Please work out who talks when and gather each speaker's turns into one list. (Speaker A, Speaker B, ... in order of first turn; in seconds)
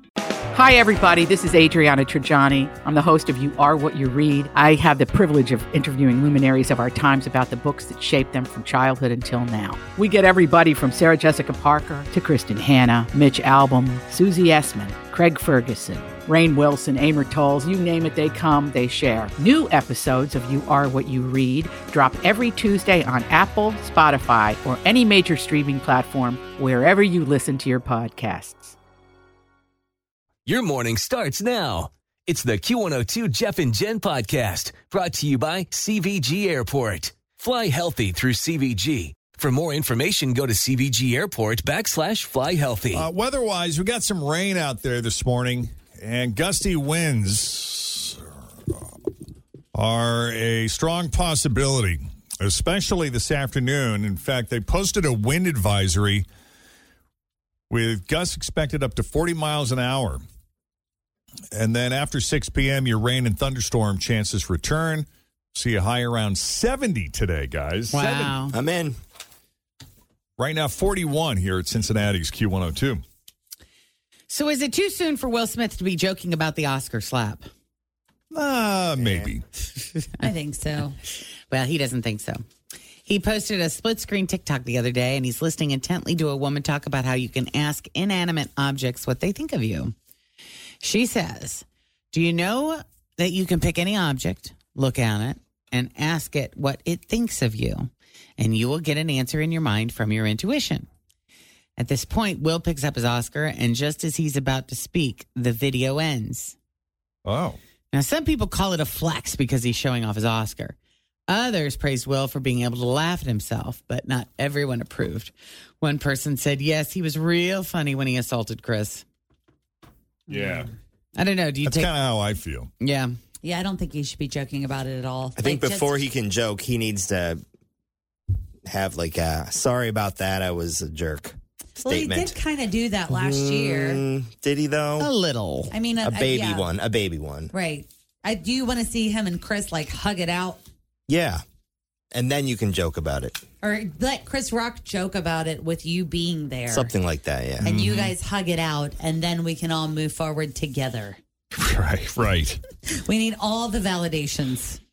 Speaker A: 0.5-28.8
Speaker B: 30.5-43.1
Speaker C: 42.9-48.8, 49.7-56.3, 57.7-60.2, 61.5-68.4, 70.4-73.0, 78.3-79.4, 107.2-107.6, 120.3-120.7, 121.6-122.7, 147.6-148.1, 151.5-152.6
Speaker D: 67.9-68.5, 74.3-77.5, 81.5-82.4, 83.1-89.9, 90.8-100.9, 101.8-106.6, 107.9-110.8, 111.3-119.0, 121.2-121.9, 122.8-123.1, 135.0-135.7
Speaker E: 68.5-69.0, 79.0-79.3, 125.4-127.4, 128.7-132.4, 133.1-135.1, 136.0-137.5, 141.1-141.4, 142.1-143.4, 146.7-147.7
Speaker F: 80.2-81.0, 120.3-120.7, 123.4-126.1, 131.8-134.0, 135.7-136.7, 137.5-140.6, 143.6-146.9, 147.6-151.2, 152.9-154.8